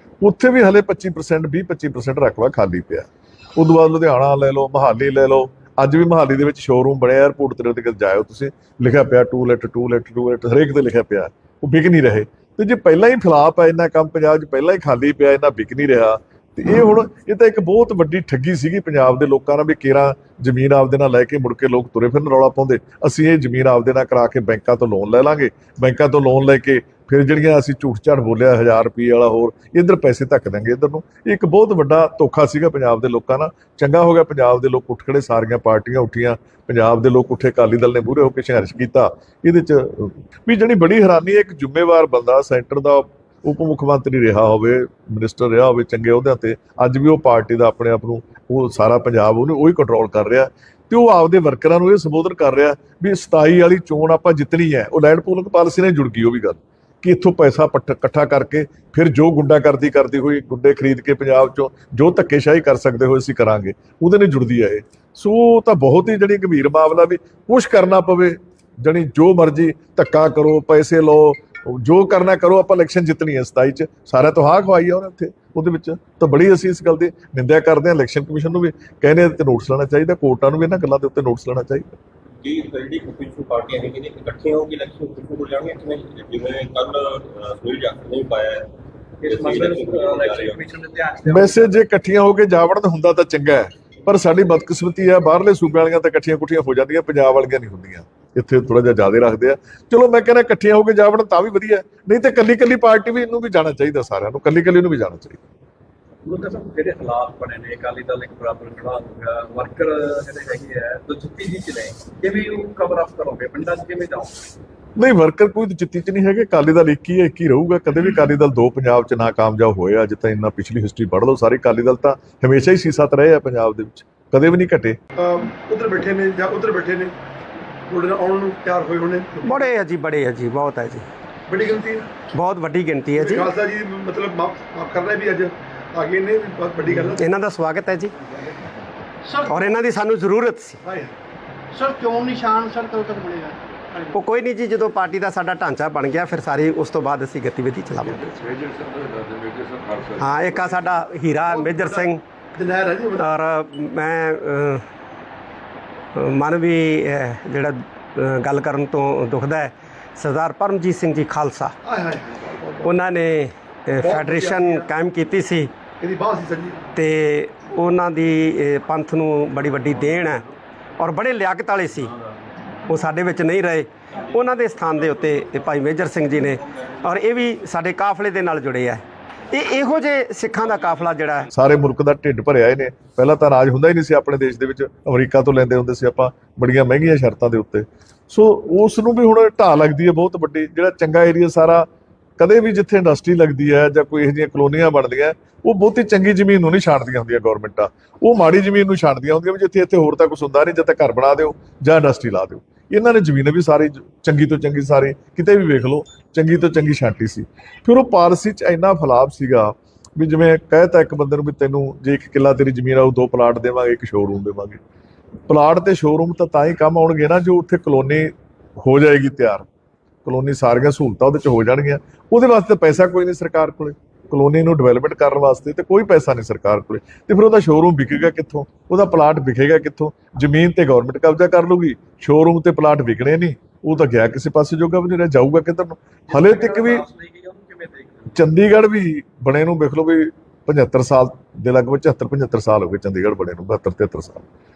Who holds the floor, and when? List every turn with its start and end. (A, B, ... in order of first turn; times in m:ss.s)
0:00.2-1:22.0 A
1:22.4-1:28.7 B
1:29.2-1:31.8 C
1:29.2-1:30.6 B
1:31.3-1:45.4 A
1:46.2-1:54.4 C
1:55.0-2:05.0 A
2:05.2-2:07.1 D
2:07.9-2:09.7 D
2:09.4-2:11.0 E
2:11.5-2:12.1 D
2:12.3-2:13.5 E
2:13.2-2:17.2 D
2:17.0-2:18.1 E
2:19.5-2:20.8 E
2:20.8-2:21.1 D
2:21.7-2:24.1 F
2:24.2-2:28.2 E
2:28.0-2:31.0 G
2:30.2-2:32.2 E
2:31.5-2:33.2 D
2:33.2-2:34.8 E
2:36.1-2:41.7 E
2:41.8-2:42.9 D
2:42.8-2:45.7 E
2:44.0-2:44.9 D
2:46.0-2:46.8 D
2:47.0-2:52.2 E
2:52.9-3:01.5 E
3:01.5-3:11.9 A
3:12.4-3:34.8 A
3:35.5-3:39.7 A
3:40.2-3:57.0 A
3:56.3-3:58.5 C
3:58.3-4:04.4 A